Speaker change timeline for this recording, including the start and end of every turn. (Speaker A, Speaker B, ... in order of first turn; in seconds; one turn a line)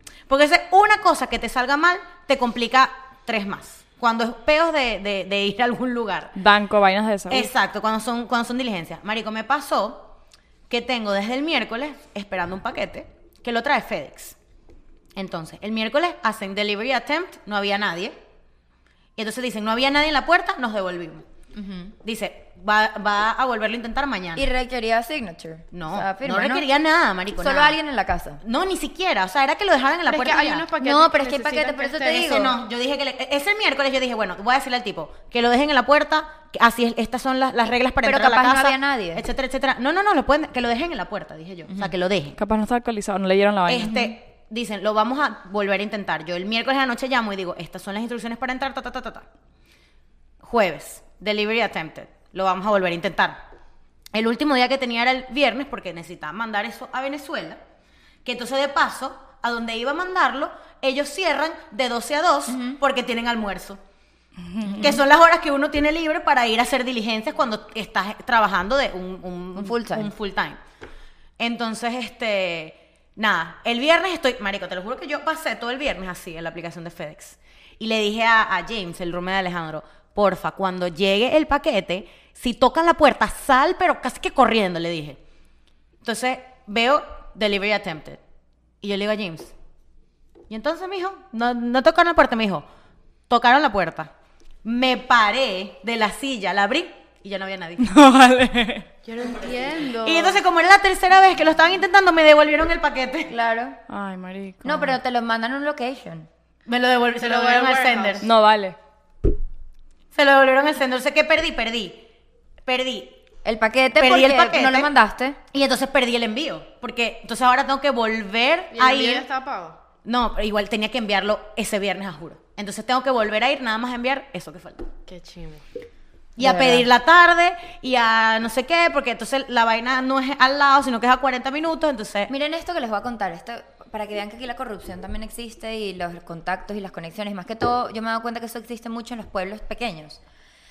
Speaker A: 0.3-6.3
Speaker B: 6.4-7.5
Speaker A: 7.3-10.1
Speaker A: 10.7-14.4
Speaker A: 15.1-18.2
Speaker A: 19.2-21.2
Speaker C: 21.5-21.9
Speaker A: 22.0-24.5
Speaker C: 24.4-26.6
Speaker A: 25.7-27.8
Speaker C: 27.4-28.4
Speaker A: 28.4-30.7
Speaker D: 30.1-32.3
Speaker C: 30.8-32.6
Speaker A: 32.1-42.4
Speaker C: 38.0-39.2
Speaker B: 42.4-44.0
Speaker A: 43.7-49.2
Speaker C: 43.9-44.1
Speaker A: 50.4-53.4
Speaker A: 54.1-57.6
Speaker A: 58.2-63.8
Speaker C: 62.5-62.8
Speaker B: 64.5-65.0
Speaker C: 64.7-65.0
Speaker A: 64.7-70.6
Speaker C: 69.5-70.1
Speaker A: 71.4-85.2
Speaker A: 86.0-88.2
Speaker A: 88.8-89.5
Speaker A: 90.5-92.7
Speaker A: 93.3-94.1
Speaker A: 94.6-97.9
Speaker B: 97.8-98.9
Speaker D: 99.0-100.4
Speaker A: 100.0-103.3
Speaker C: 103.3-103.8
Speaker B: 103.9-105.0
Speaker C: 104.6-106.3
Speaker A: 106.7-108.3
Speaker D: 107.2-108.2
Speaker B: 108.2-108.8
Speaker A: 110.1-112.0
Speaker A: 112.6-113.2
Speaker C: 113.4-115.4
Speaker A: 114.0-114.9
Speaker A: 115.5-119.3
Speaker D: 118.7-119.8
Speaker A: 120.0-124.9
Speaker D: 125.1-125.6
Speaker A: 126.4-132.3
Speaker C: 126.4-126.9
Speaker C: 132.3-140.2